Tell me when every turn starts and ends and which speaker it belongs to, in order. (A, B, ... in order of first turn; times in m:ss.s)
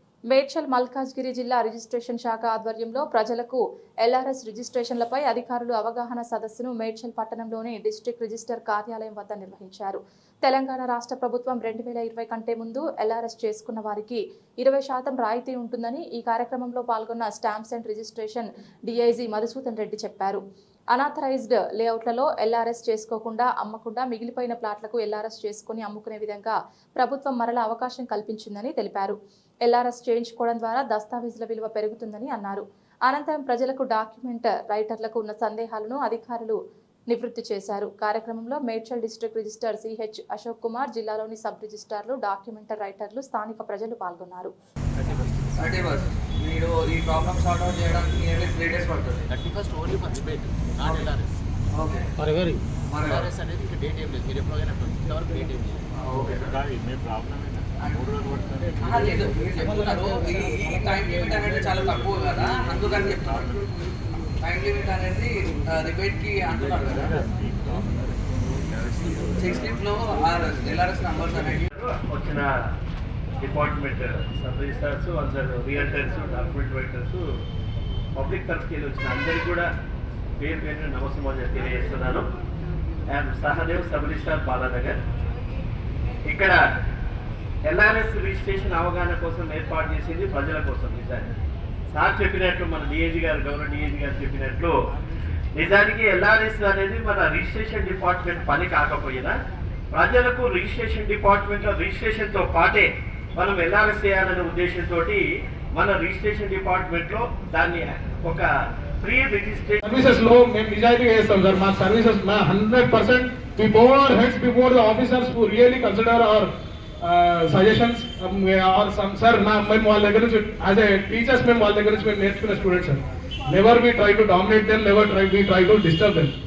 0:00.3-0:20.4 A
0:20.9-0:36.6 A
0:37.1-0:44.5 A
0:45.6-0:49.2 B
0:49.2-0:51.3 C
0:52.2-0:52.6 C
0:52.9-0:53.2 B
0:53.1-0:55.8 C
0:56.4-0:59.3 D
0:58.8-1:03.5 B
1:04.4-1:07.1 B
1:06.9-1:09.7 D
1:09.4-1:11.6 B
1:11.6-1:12.5 E
1:13.4-1:17.2 E
1:18.2-1:19.7 E
1:20.4-1:22.3 E
1:23.1-1:25.0 E
1:26.3-1:26.6 E
1:27.6-1:31.3 E
1:31.9-1:34.8 E
1:35.6-1:39.3 E
1:39.9-1:48.5 E
1:49.0-1:49.8 E
1:49.8-1:56.5 F
1:57.0-2:06.3 F